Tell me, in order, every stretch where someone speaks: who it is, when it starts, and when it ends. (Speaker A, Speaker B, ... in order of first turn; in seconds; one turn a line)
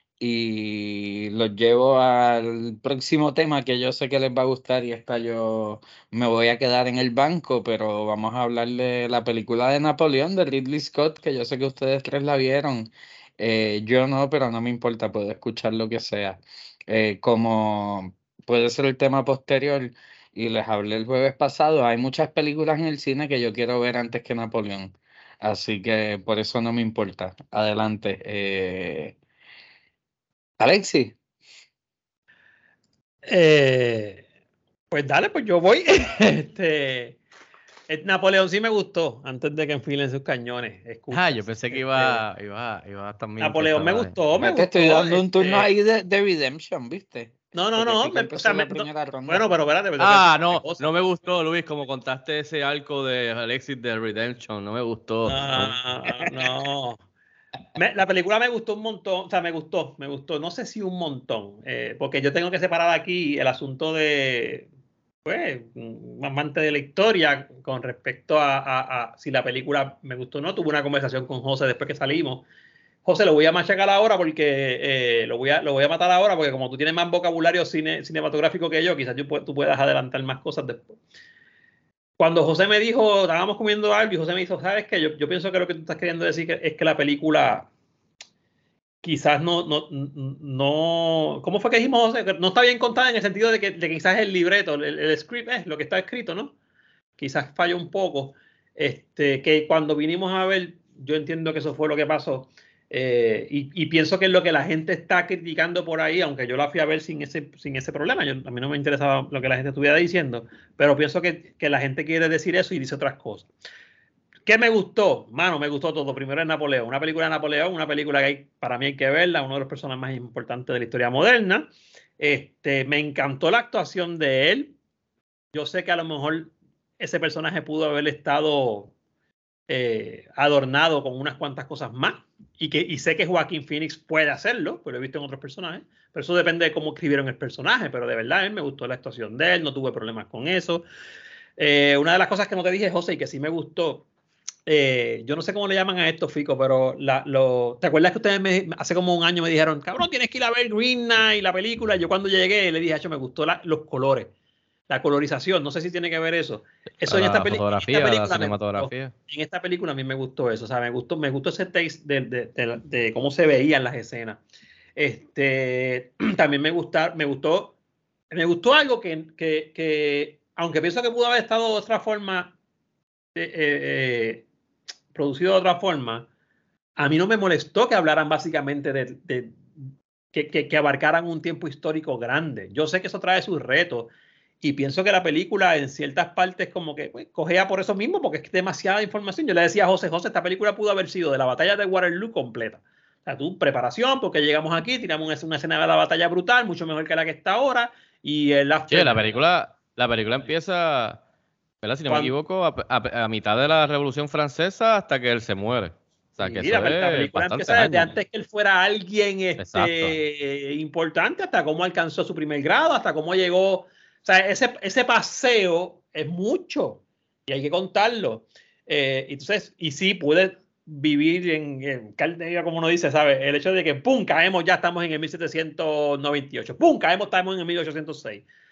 Speaker A: 0.2-29.1
Speaker A: 30.6-31.1
Speaker B: 33.2-34.2
Speaker B: 34.9-37.2
Speaker B: 37.9-42.2
Speaker C: 41.1-44.2
Speaker B: 43.4-45.7
Speaker A: 44.4-49.4
Speaker B: 47.5-50.9
Speaker C: 50.0-56.3
Speaker B: 55.2-57.0
Speaker B: 57.8-64.7
Speaker B: 65.2-72.4
Speaker B: 73.0-81.0
Speaker B: 82.2-87.7
Speaker B: 89.0-96.5
Speaker B: 97.2-113.5
Speaker B: 114.5-124.7
Speaker B: 125.5-128.9
Speaker B: 129.7-140.8
Speaker B: 141.6-144.1
Speaker B: 144.7-154.3
Speaker B: 154.9-164.4
Speaker C: 157.1-159.1
Speaker B: 164.9-167.7
Speaker B: 168.3-172.5
Speaker B: 173.3-174.4
Speaker B: 175.1-176.3
Speaker B: 177.0-179.6
Speaker B: 180.3-184.1
Speaker B: 184.6-199.2
Speaker C: 198.9-201.2
Speaker C: 201.8-208.2
Speaker B: 202.1-202.3
Speaker B: 206.4-228.4
Speaker C: 209.6-210.2